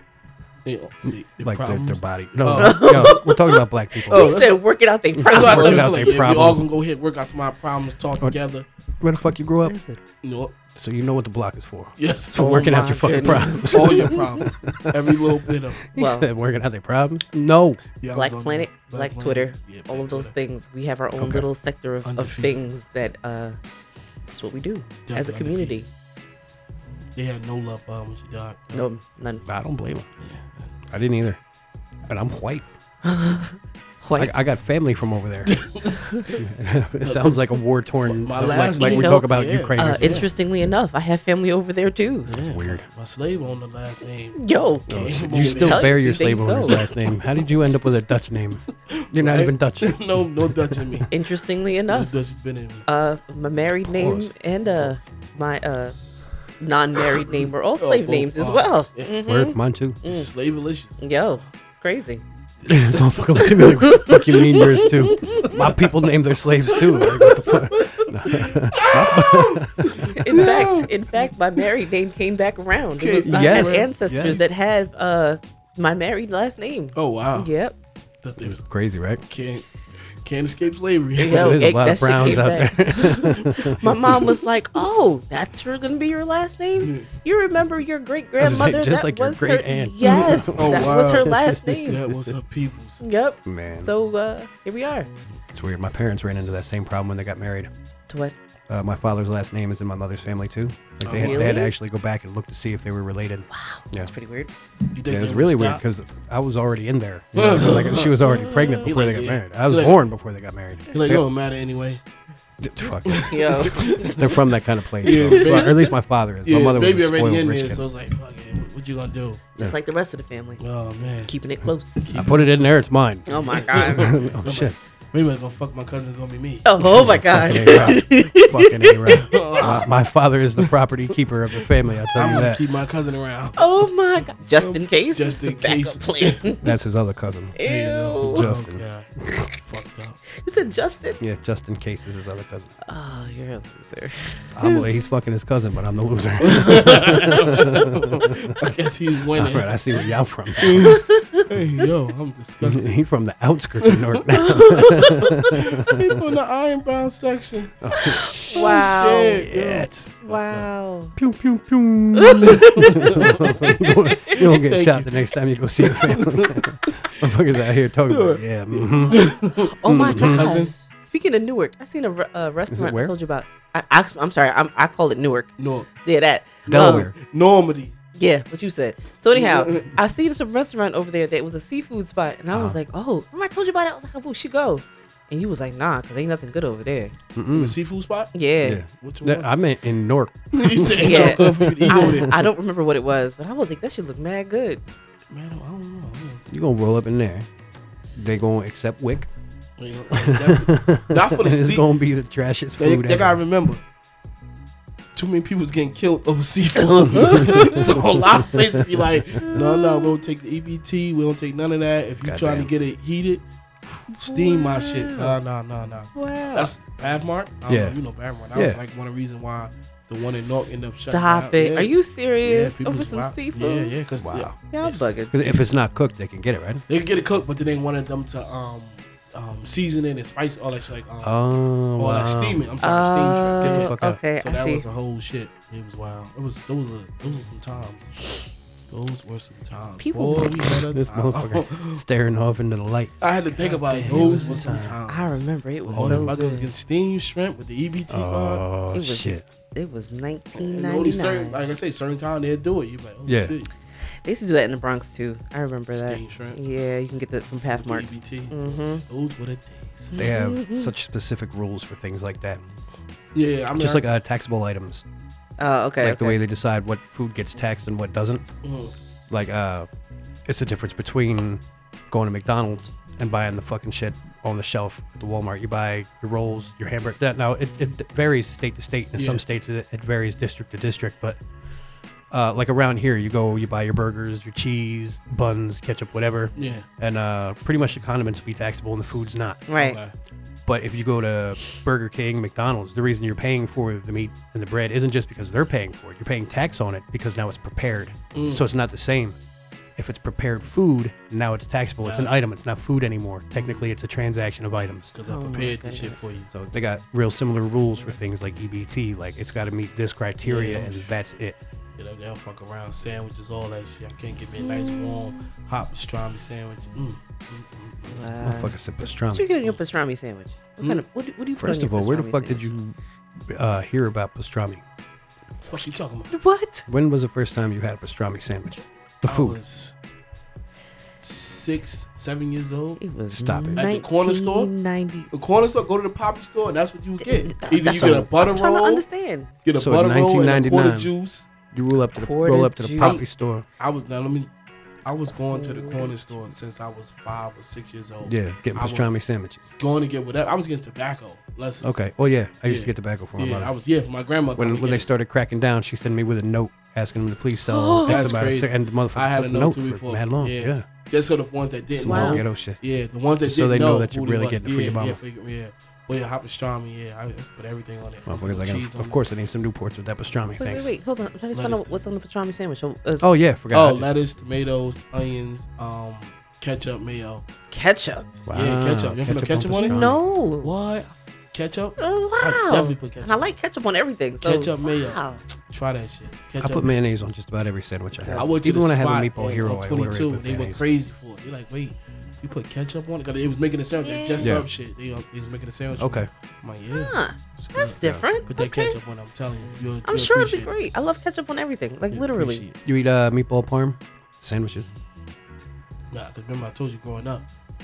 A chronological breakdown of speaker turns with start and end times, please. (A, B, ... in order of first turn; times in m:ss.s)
0:00.6-0:03.2 A
0:01.1-0:04.4 B
0:02.5-0:06.1 C
0:04.1-0:04.6 A
0:05.2-0:06.7 B
0:05.2-0:08.7 A
0:09.0-0:09.8 B
0:09.6-0:10.0 C
0:10.2-0:10.6 A
0:10.8-0:15.3 B
0:12.0-0:15.8 A
0:12.4-0:14.2 C
0:15.9-0:17.8 B
0:15.9-0:16.3 C
0:18.0-0:20.3 A
0:18.1-0:23.6 C
0:21.2-0:21.5 B
0:22.0-0:22.6 A
0:24.3-0:25.9 C
0:25.1-0:25.8 A
0:27.2-0:28.9 A
0:28.7-0:29.4 C
0:29.4-0:30.1 B
0:30.2-0:30.7 A
0:30.9-0:31.4 B
0:32.1-0:32.7 B
0:33.0-0:34.4 C
0:34.2-0:35.6 B
0:35.5-0:36.4 A
0:36.0-0:36.3 C
0:36.4-0:40.3 B
0:37.0-0:40.3 A
0:38.8-0:42.3 C
0:42.3-0:46.0 A
0:42.4-0:42.9 B
0:44.4-0:46.8 C
0:44.9-0:51.0 B
0:46.7-0:47.1 A
0:48.9-0:51.1 A
0:51.1-0:52.1 C
0:51.9-0:52.8 A
0:52.9-0:56.0 C
0:53.8-0:54.3 B
0:54.7-0:55.0 A
0:56.6-1:00.3 C
0:57.2-0:59.2 A
0:59.3-1:00.0 B
1:00.0-1:01.0 A
1:01.0-1:02.2 C
1:02.6-1:04.1 A
1:02.7-1:10.5 B
1:04.0-1:05.6 C
1:04.8-1:05.8 A
1:06.7-1:11.6 A
1:10.1-1:17.8 C
1:13.0-1:13.9 A
1:13.2-1:14.4 B
1:17.0-1:17.5 A
1:18.2-1:18.6 A
1:18.4-1:19.2 B
1:19.3-1:19.6 A
1:20.2-1:21.7 A
1:21.2-1:32.0 C
1:21.3-1:23.8 B
1:26.8-1:27.1 A
1:28.4-1:32.3 B
1:30.1-1:33.0 A
1:33.0-1:35.1 C
1:33.4-1:33.9 B
1:35.5-1:37.7 B
1:38.1-1:38.4 C
1:38.7-1:44.1 B
1:41.0-1:41.5 A
1:41.2-1:41.7 C
1:43.5-1:44.5 C
1:44.9-1:45.8 A
1:45.1-1:51.2 B
1:47.4-1:50.0 A
1:48.3-1:48.9 C
1:50.9-1:52.0 A
1:52.6-1:57.8 B
1:53.1-1:54.5 A
1:53.1-1:54.2 C
1:55.0-1:55.9 A
1:55.2-1:55.7 C
1:56.4-1:59.4 A
1:59.6-2:00.6 C
2:00.6-2:01.3 A
2:01.2-2:02.1 C
2:02.0-2:02.6 A
2:02.2-2:04.8 B
2:03.3-2:04.2 C
2:03.3-2:08.0 A
2:06.6-2:09.9 C
2:06.9-2:12.6 B
2:09.2-2:09.9 A
2:12.1-2:13.8 A
2:13.6-2:16.6 C
2:14.6-2:16.5 A
2:16.6-2:17.6 B
2:17.6-2:18.5 C
2:17.6-2:20.2 A
2:18.2-2:19.5 B
2:20.3-2:21.2 C
2:21.2-2:22.7 B
2:22.9-2:24.9 C
2:24.5-2:28.5 B
2:26.4-2:29.8 A
2:29.4-2:31.0 B
2:30.6-2:33.0 A
2:30.8-2:31.4 C
2:32.6-2:36.2 B
2:33.8-2:34.2 A
2:34.4-2:35.3 C
2:34.8-2:37.8 A
2:37.8-2:40.2 B
2:38.5-2:39.5 C
2:38.5-2:40.7 A
2:40.2-2:41.2 C
2:41.2-2:49.3 B
2:42.2-2:43.2 C
2:42.5-2:43.5 A
2:44.3-2:45.2 A
2:45.8-2:47.2 A
2:48.1-2:50.7 A
2:49.1-2:55.5 C
2:49.8-2:50.6 B
2:52.7-2:53.1 B
2:55.6-2:55.9 A
2:56.0-2:57.1 C
2:56.7-2:57.9 A
2:56.7-2:57.1 B
2:58.2-3:07.1 C
2:59.3-2:59.9 A
3:02.5-3:02.8 B
3:07.4-3:07.8 B
3:07.6-3:08.4 A
3:08.3-3:08.8 C
3:08.6-3:12.3 B
3:08.9-3:09.5 A
3:10.5-3:12.3 A
3:11.0-3:14.8 C
3:15.3-3:16.4 A
3:16.5-3:17.5 B
3:18.2-3:19.3 B
3:19.8-3:21.9 A
3:20.1-3:23.4 B
3:22.8-3:23.8 A
3:25.2-3:33.4 A
3:27.0-3:29.4 B
3:27.1-3:28.0 C
3:29.4-3:30.1 C
3:32.2-3:32.7 B
3:34.1-3:45.7 A
3:34.3-3:35.3 C
3:36.2-3:36.7 C
3:37.7-3:38.0 B
3:38.5-3:38.8 B
3:40.4-3:44.0 C
3:44.2-3:44.6 B
3:44.7-3:45.4 C
3:45.3-3:46.8 B
3:46.9-3:51.4 A
3:51.2-3:52.6 B
3:52.0-3:58.2 A
3:52.8-3:54.8 C
3:53.6-3:54.2 B
3:58.9-4:02.0 A
4:00.0-4:00.7 C
4:00.9-4:05.0 B
4:03.2-4:08.7 A
4:03.7-4:06.7 C
4:05.9-4:06.3 B
4:08.1-4:09.4 B
4:08.9-4:11.6 C
4:10.6-4:13.7 A
4:13.3-4:13.6 B
4:14.2-4:19.0 C
4:15.9-4:16.6 A
4:17.7-4:20.2 A
4:20.1-4:20.9 C
4:20.2-4:22.6 B
4:23.3-4:24.1 A
4:23.7-4:25.0 B
4:25.6-4:26.4 C
4:26.0-4:28.4 B
4:28.6-4:28.9 A
4:29.3-4:29.9 B
4:30.5-4:41.4 B
4:39.2-4:39.4 A
4:42.3-4:49.7 B
4:46.6-4:46.9 A
4:49.7-4:50.0 C
4:49.8-4:50.1 A
4:50.7-4:59.4 B
4:58.3-4:58.7 A
5:00.0-5:05.1 B
5:02.0-5:02.4 A
5:03.6-5:03.8 A
5:05.2-5:06.5 A
5:05.2-5:06.3 C
5:06.5-5:11.6 B
5:10.4-5:11.2 A
5:12.0-5:18.2 A
5:14.6-5:15.4 C
5:18.1-5:18.8 C
5:18.4-5:19.5 B
5:19.3-5:22.8 C
5:20.8-5:21.0 A
5:21.6-5:23.0 B
5:23.5-5:24.8 B
5:25.7-5:26.3 A
5:26.3-5:26.9 C
5:26.9-5:29.6 B
5:29.2-5:29.9 A
5:31.2-5:33.0 A
5:33.0-5:35.3 C
5:33.3-5:33.9 B
5:33.8-5:34.7 A
5:35.3-5:39.0 A
5:37.2-5:39.5 C
5:37.9-5:38.3 B
5:39.6-5:41.5 A
5:39.8-5:41.1 B
5:41.7-5:43.6 B
5:42.2-5:43.2 C
5:43.0-5:43.3 A
5:43.8-5:44.5 A
5:45.0-5:49.1 A
5:45.5-5:46.6 C
5:48.2-5:49.7 B
5:49.8-5:51.9 A
5:51.8-5:53.7 B
5:52.6-5:55.1 A
5:54.6-6:00.8 B
5:57.7-5:58.3 C
5:58.0-6:09.2 A
6:02.0-6:02.8 B
6:02.0-6:02.4 C
6:03.4-6:05.2 B
6:08.3-6:10.9 B
6:10.6-6:13.3 C
6:11.5-6:12.0 A
6:13.2-6:14.1 B
6:13.7-6:17.4 A
6:17.7-6:18.3 C
6:18.5-6:20.2 B
6:18.5-6:20.0 A
6:19.8-6:20.7 C
6:20.6-6:23.5 A
6:22.0-6:25.4 C
6:24.4-6:27.0 A
6:26.6-6:30.8 B
6:28.2-6:28.5 C
6:28.3-6:40.7 A
6:34.0-6:34.6 C
6:34.4-6:34.7 B
6:36.0-6:36.3 B
6:36.9-6:39.0 C
6:40.1-6:42.6 C
6:42.1-6:42.8 A
6:42.8-6:44.9 B
6:46.1-6:47.4 A